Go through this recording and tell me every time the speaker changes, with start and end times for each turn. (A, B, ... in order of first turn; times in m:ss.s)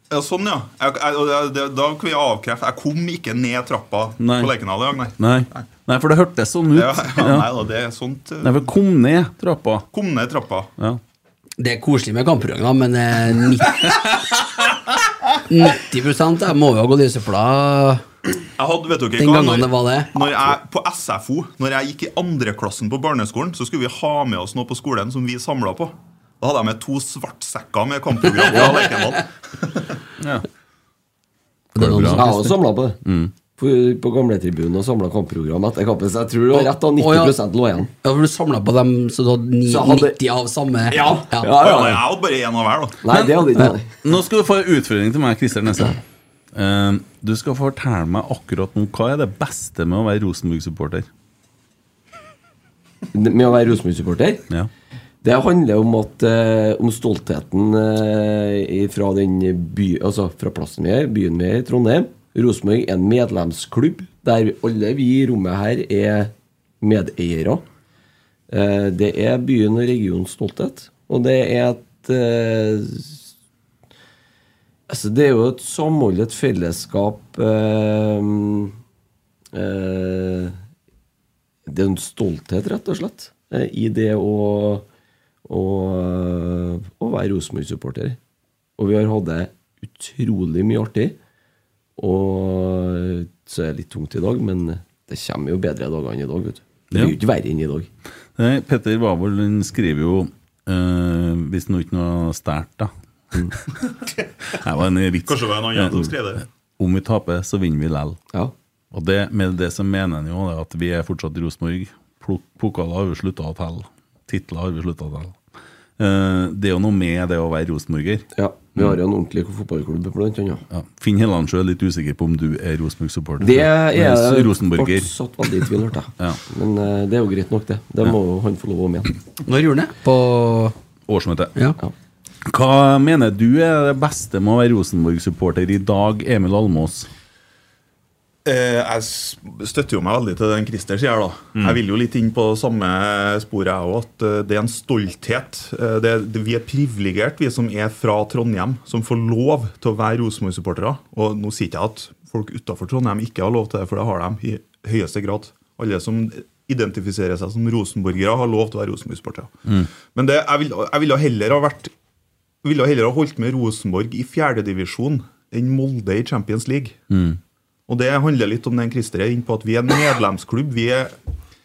0:00.1-0:05.7 A
0:04.2-0:04.5 B
0:05.2-0:07.5 B
0:06.7-0:08.7 A
0:08.4-0:09.8 B
0:09.9-0:10.7 A
0:11.6-0:14.0 C
0:15.5-0:18.0 C
0:18.6-0:29.9 A
0:19.2-0:20.1 C
0:30.2-0:30.4 B
0:31.8-0:32.5 C
0:31.8-0:32.4 B
0:32.2-0:33.0 D
0:33.0-0:33.3 B
0:33.6-0:37.9 D
0:36.5-0:37.4 C
0:38.0-0:41.5 C
0:39.6-0:40.2 D
0:40.9-0:42.0 D
0:41.5-0:43.0 A
0:43.0-0:44.0 D
0:44.0-0:46.0 B
0:46.5-0:51.1 B
0:53.1-0:54.4 D
0:55.2-1:07.6 D
1:08.5-1:13.3 D
1:14.9-1:18.7 D
1:19.5-1:20.6 D
1:21.7-1:24.9 D
1:25.5-1:28.2 D
1:28.8-1:31.2 D
1:32.0-1:37.9 D
1:38.4-1:42.9 B
1:44.5-1:46.0 B
1:45.3-1:46.4 A
1:46.8-1:48.2 B
1:48.9-1:55.4 B
1:56.0-1:58.2 B
1:58.4-2:00.6 D
2:00.7-2:05.1 B
2:03.4-2:09.1 D
2:09.5-2:10.7 C
2:11.1-2:11.5 B
2:12.5-2:17.1 B
2:18.4-2:39.6 A
2:40.1-2:41.9 A
2:42.6-2:47.0 A
2:47.1-2:47.4 B
2:47.9-2:51.1 A